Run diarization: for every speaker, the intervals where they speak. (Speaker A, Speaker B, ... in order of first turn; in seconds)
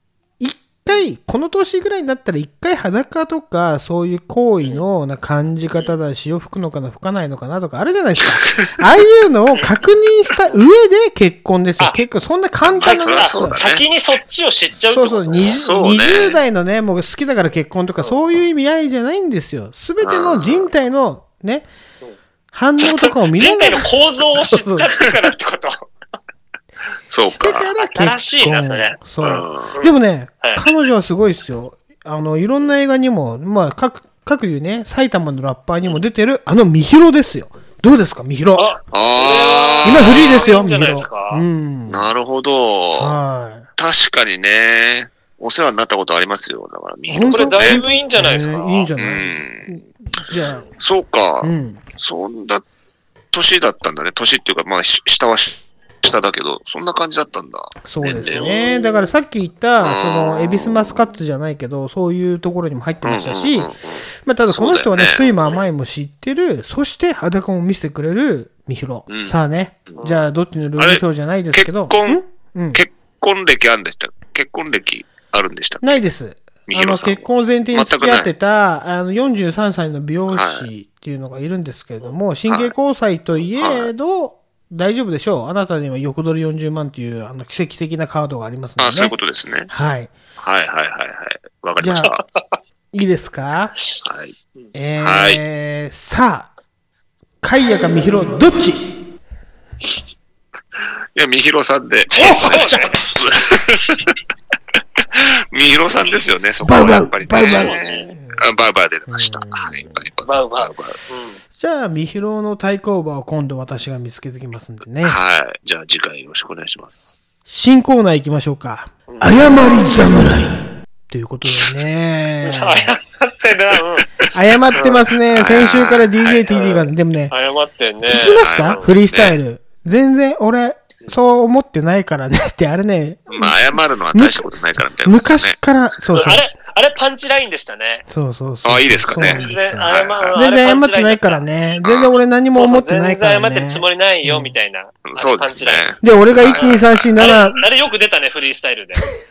Speaker A: 0.4-13.6, 14.9-21.6, 22.5-24.9, 27.3-38.7, 39.8-42.1, 42.9-43.7, 47.1-50.7, 51.4-51.8, 57.8-72.8, 75.8-89.1, 89.7-90.1, 91.8-92.2, 92.9-93.8, 94.7-96.5, 97.4-98.9, 102.1-103.1, 106.6-108.4, 109.1-110.0, 111.6-115.2, 117.5-122.9, 124.3-127.3, 128.0-136.5, 138.1-144.5, 146.0-147.6
Speaker B: 12.6-13.8, 15.3-16.4, 20.0-20.7, 27.1-27.7, 29.2-29.8, 38.9-40.5, 41.9-43.2, 43.8-47.8, 49.0-52.6, 53.3-58.6, 59.8-61.1, 63.0-65.4, 69.1-69.3, 70.8-72.2, 72.7-76.0, 76.7-78.3, 80.3-80.7, 82.5-82.7, 83.5-83.9, 88.8-89.7, 90.4-92.2, 94.0-94.3, 95.0-95.4, 100.8-104.2, 105.0-111.0, 115.0-117.3, 125.3-126.4, 128.4-129.4, 133.3-135.6, 138.6-140.4, 141.8-142.1, 145.0-147.1
Speaker C: 12.8-15.6, 22.8-25.8, 27.8-30.6, 38.5-41.4, 47.2-48.9, 58.3-59.1, 70.0-70.2, 102.1-103.0, 107.4-108.1, 110.2-111.4, 119.1-119.5, 122.4-125.0, 126.5-128.9, 136.1-138.0, 139.1-141.4, 142.5-146.0, 146.5-149.0